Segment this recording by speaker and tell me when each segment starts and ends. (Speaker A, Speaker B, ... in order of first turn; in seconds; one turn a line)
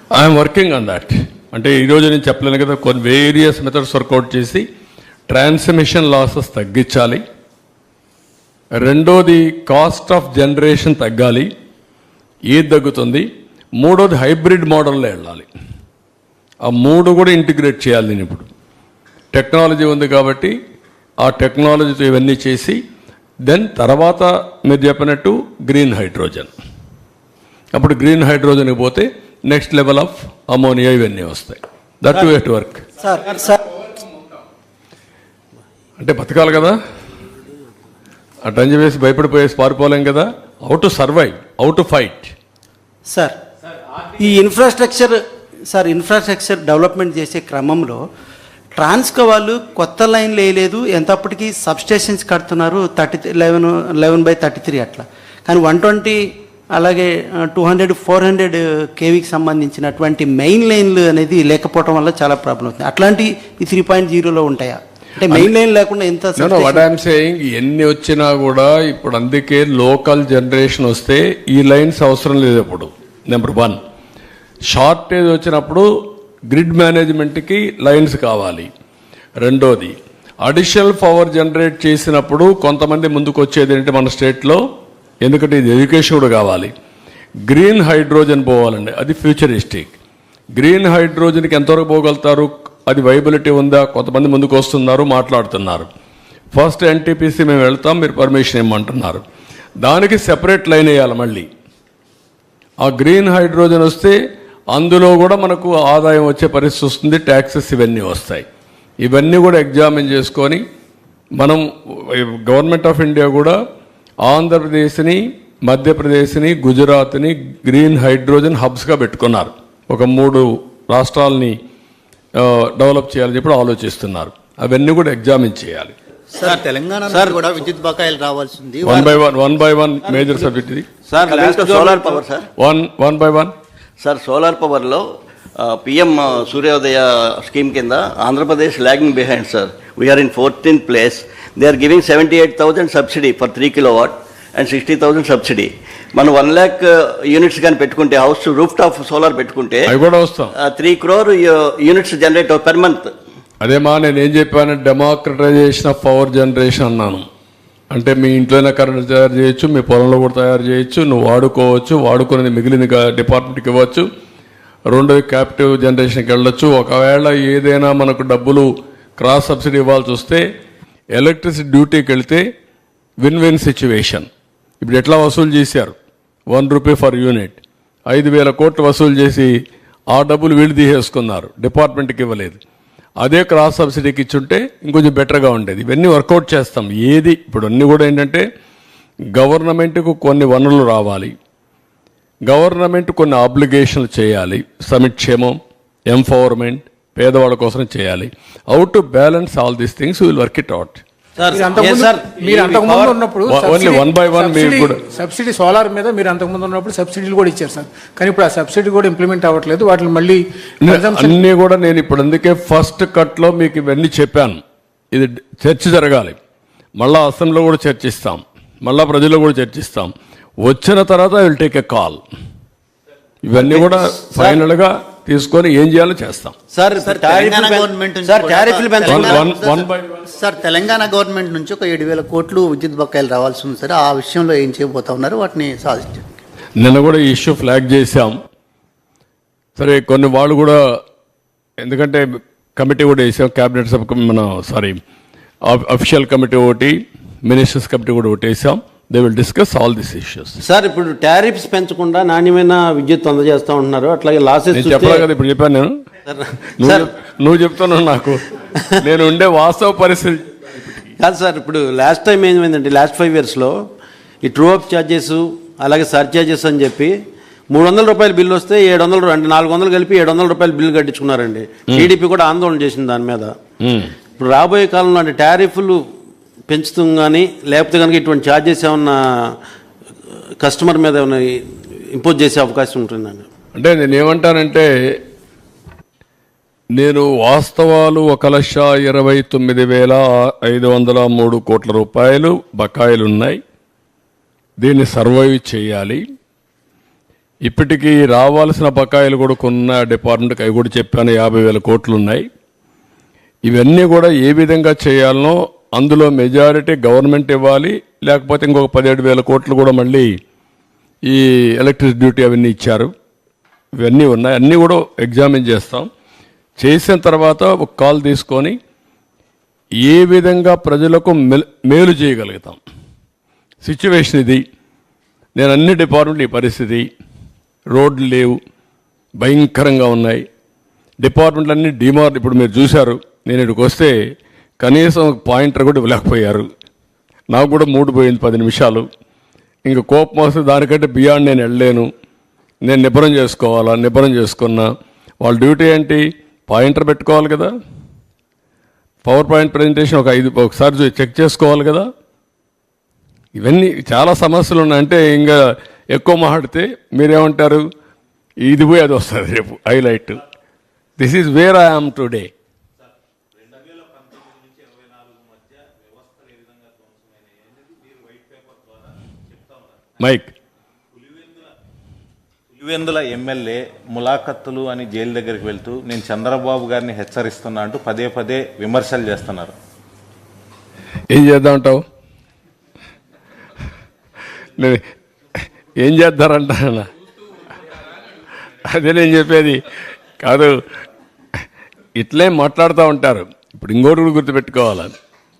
Speaker A: 0.1-4.6
Speaker A: 5.3-7.2
Speaker A: 8.8-11.5
Speaker A: 12.5-13.3
Speaker A: 13.8-15.5
Speaker A: 16.6-18.5
Speaker A: 19.3-20.5
Speaker A: 21.2-22.8
Speaker A: 23.4-26.5
Speaker A: 27.7-32.8
Speaker B: 33.0-33.6
Speaker A: 36.0-36.8
Speaker A: 38.4-42.3
Speaker B: 44.1-45.2
Speaker B: 45.7-48.0
Speaker B: 48.8-56.2
Speaker B: 56.8-66.9
Speaker A: 66.4-73.8
Speaker A: 74.7-75.9
Speaker A: 76.5-78.7
Speaker A: 79.4-84.6
Speaker A: 85.2-86.7
Speaker A: 87.5-89.9
Speaker A: 90.5-95.9
Speaker A: 96.5-99.2
Speaker A: 99.8-101.5
Speaker A: 102.8-104.2
Speaker A: 104.7-108.4
Speaker A: 109.0-110.6
Speaker A: 111.4-113.6
Speaker A: 114.2-121.5
Speaker A: 122.4-125.9
Speaker C: 126.3-129.1
Speaker D: 126.4-127.4
Speaker A: 128.8-130.9
Speaker D: 130.1-130.5
Speaker D: 131.1-132.2
Speaker E: 131.1-132.5
Speaker A: 132.6-133.5
Speaker E: 134.0-149.9
Speaker A: 149.9-150.5
Speaker E: 150.5-153.1
Speaker A: 153.6-157.2
Speaker A: 157.9-164.0
Speaker A: 164.9-170.4
Speaker A: 171.1-172.4
Speaker A: 173.2-174.3
Speaker A: 174.8-175.9
Speaker A: 176.5-179.5
Speaker A: 180.1-182.6
Speaker A: 183.2-188.4
Speaker A: 189.3-191.3
Speaker A: 192.4-195.6
Speaker A: 196.1-201.0
Speaker D: 201.4-203.2
Speaker F: 201.6-210.4
Speaker A: 203.5-205.0
Speaker A: 210.8-216.4
Speaker F: 210.9-211.3
Speaker A: 217.0-222.2
Speaker A: 223.4-226.5
Speaker D: 223.5-224.6
Speaker D: 226.7-229.5
Speaker C: 226.9-236.3
Speaker A: 229.0-230.1
Speaker A: 236.8-238.4
Speaker A: 239.8-240.8
Speaker A: 241.8-242.2
Speaker A: 242.8-245.0
Speaker A: 245.6-250.6
Speaker D: 250.6-255.2
Speaker A: 254.7-255.9
Speaker D: 256.3-257.1
Speaker A: 256.8-261.1
Speaker D: 261.2-263.7
Speaker D: 264.4-267.1
Speaker D: 267.7-273.5
Speaker A: 273.8-274.1
Speaker D: 274.4-276.0
Speaker D: 276.7-279.2
Speaker D: 280.6-281.4
Speaker D: 282.1-283.4
Speaker A: 283.8-285.2
Speaker A: 286.9-293.6
Speaker A: 294.8-296.2
Speaker A: 297.6-302.4
Speaker A: 303.6-310.3
Speaker A: 311.2-313.1
Speaker A: 314.0-316.1
Speaker A: 316.8-318.8
Speaker A: 320.0-322.8
Speaker A: 323.8-324.6
Speaker A: 325.6-327.1
Speaker A: 327.9-328.6
Speaker A: 329.4-330.4
Speaker A: 331.2-334.1
Speaker A: 334.8-336.7
Speaker A: 337.5-339.1
Speaker A: 339.8-342.1
Speaker A: 342.8-347.7
Speaker A: 349.2-352.0
Speaker A: 353.6-355.6
Speaker A: 356.1-357.8
Speaker A: 358.6-360.4
Speaker A: 361.2-362.5
Speaker G: 363.7-368.9
Speaker A: 370.2-370.5
Speaker G: 372.7-379.7
Speaker A: 381.3-382.0
Speaker A: 386.0-387.1
Speaker A: 388.8-389.8
Speaker A: 390.4-390.8
Speaker A: 392.2-395.1